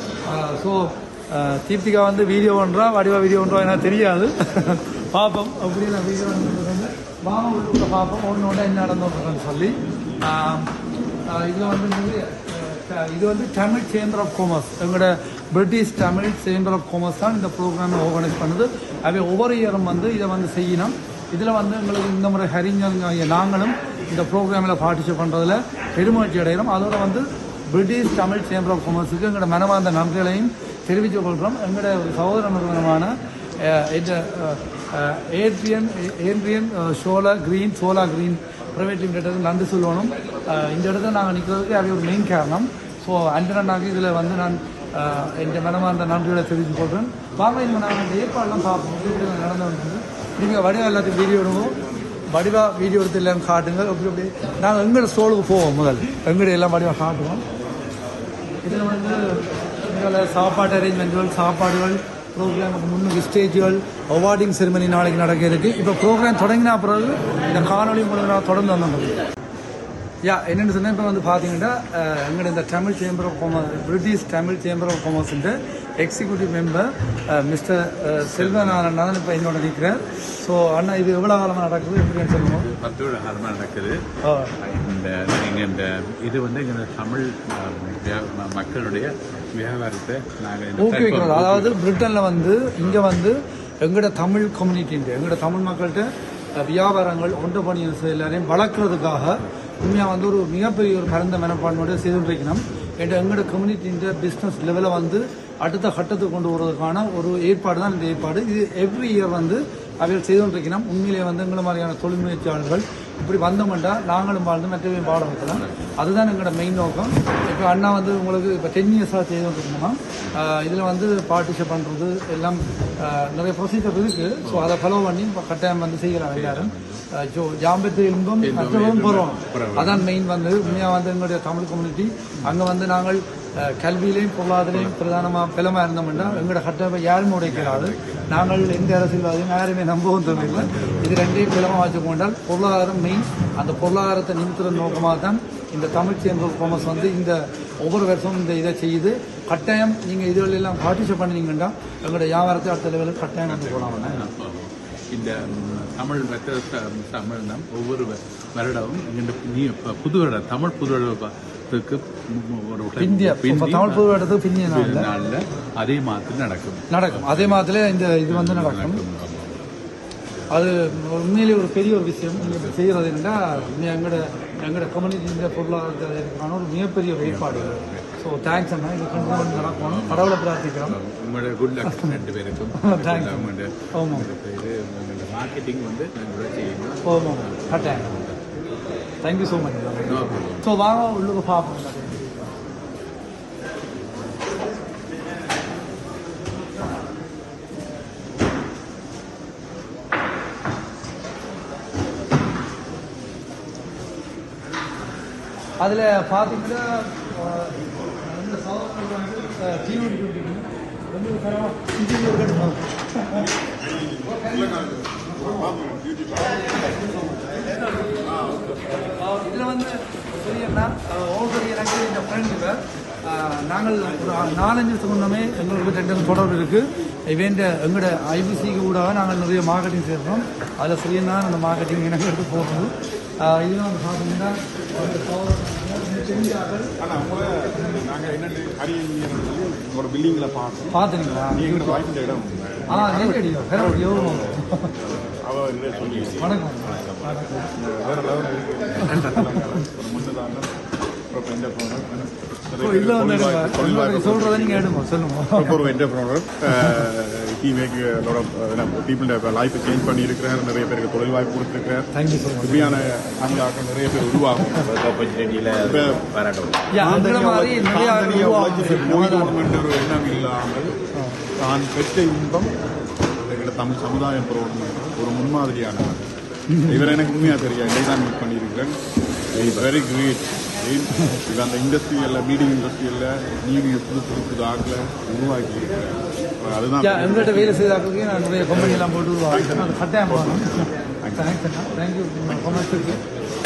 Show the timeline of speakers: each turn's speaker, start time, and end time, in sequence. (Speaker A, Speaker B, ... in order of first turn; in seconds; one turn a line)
Speaker A: 0.3-10.7
Speaker A: 11.3-51.8
Speaker A: 52.3-57.4
Speaker A: 58.6-69.2
Speaker A: 70.2-82.7
Speaker B: 78.2-78.9
Speaker B: 82.3-84.1
Speaker A: 84.2-84.5
Speaker B: 84.6-91.8
Speaker A: 90.8-154.3
Speaker B: 115.6-116.0
Speaker B: 124.4-124.8
Speaker B: 126.3-127.0
Speaker B: 128.4-130.9
Speaker B: 136.1-136.5
Speaker B: 137.4-138.5
Speaker B: 140.2-141.2
Speaker B: 153.4-167.7
Speaker A: 163.0-165.1
Speaker A: 166.9-169.0
Speaker B: 168.2-169.6
Speaker A: 170.5-181.0
Speaker B: 172.4-173.7
Speaker B: 177.2-178.1
Speaker B: 179.1-188.4
Speaker A: 182.8-184.3
Speaker A: 187.0-188.1
Speaker A: 189.2-192.5
Speaker B: 190.1-190.8
Speaker A: 205.8-213.5
Speaker C: 213.7-216.7
Speaker A: 214.2-215.7
Speaker A: 216.7-218.2
Speaker C: 218.3-218.6
Speaker A: 219.2-236.9
Speaker C: 237.0-246.6
Speaker A: 240.9-242.0
Speaker A: 242.9-244.9
Speaker B: 246.0-246.4
Speaker A: 246.4-247.7
Speaker C: 247.7-250.7
Speaker A: 249.0-249.8
Speaker C: 251.3-254.9
Speaker A: 252.8-255.9
Speaker C: 255.6-262.1
Speaker A: 256.8-257.0
Speaker A: 262.1-263.0
Speaker C: 262.6-264.9
Speaker B: 264.9-266.8
Speaker C: 265.8-266.3
Speaker A: 266.9-269.6
Speaker C: 266.9-270.9
Speaker A: 271.2-271.4
Speaker C: 271.6-272.7
Speaker C: 273.4-276.3
Speaker A: 276.7-277.3
Speaker C: 276.8-279.0
Speaker C: 279.5-287.9
Speaker B: 279.6-279.8
Speaker A: 287.0-293.2
Speaker C: 288.7-290.7
Speaker C: 291.2-291.6
Speaker C: 292.5-293.1